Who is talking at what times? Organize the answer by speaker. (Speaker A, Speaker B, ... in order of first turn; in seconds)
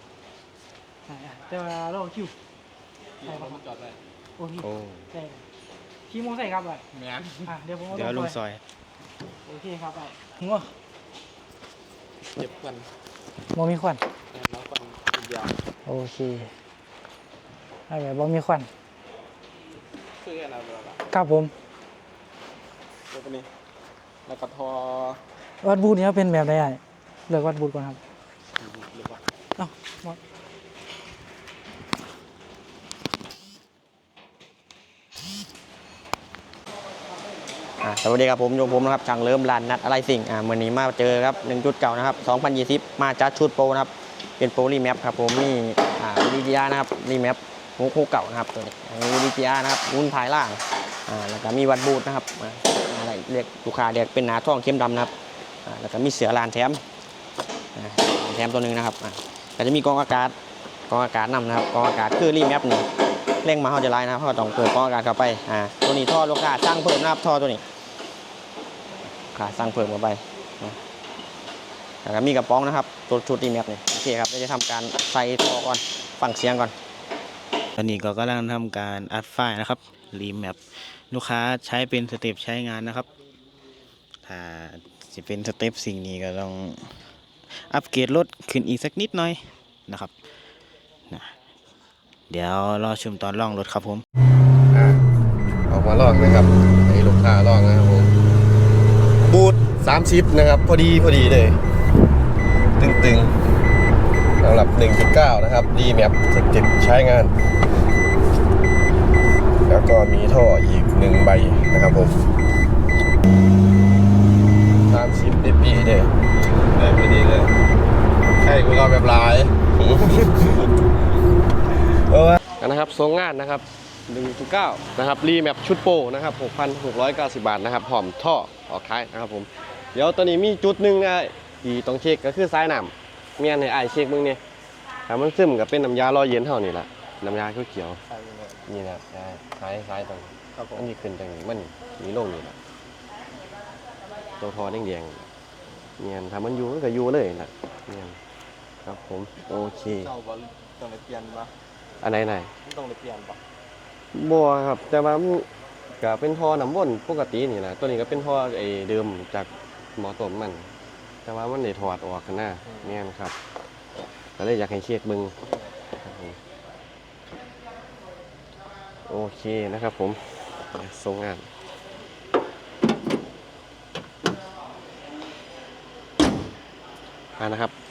Speaker A: 1.1-2.3, 3.2-3.6, 4.4-5.4, 6.1-8.3, 9.4-10.7, 13.5-14.0, 15.9-16.5, 17.9-18.7, 21.1-21.5, 25.6-28.0, 29.6-30.2
Speaker B: 3.2-4.0, 12.3-12.9, 14.3-15.5, 20.2-21.0, 23.1-23.5, 24.3-25.2, 28.7-29.2, 138.1-138.6, 140.6-140.8, 150.1-151.5, 152.7-153.4
Speaker C: 4.6-5.0, 7.9-8.6, 77.8-83.1, 84.2-90.3, 91.1-91.3, 92.3-94.0
Speaker D: 37.8-55.1, 55.6-56.8, 57.8-60.4, 60.9-62.9, 63.4-67.6, 69.3-70.8, 72.0-76.7
Speaker E: 94.7-95.0, 95.7-98.1, 99.3-101.6, 102.8-103.3, 104.4-107.3, 109.7-112.2, 114.9-116.1, 116.8-117.5, 118.4-120.7, 122.1-134.4, 135.1-138.0, 138.7-142.6, 144.4-145.3, 146.0-148.2, 148.8-150.1, 152.0-152.5, 154.1-155.5, 156.0-160.7, 161.3-163.3, 164.4-165.3, 166.0-166.4, 169.1-171.5, 177.4-177.7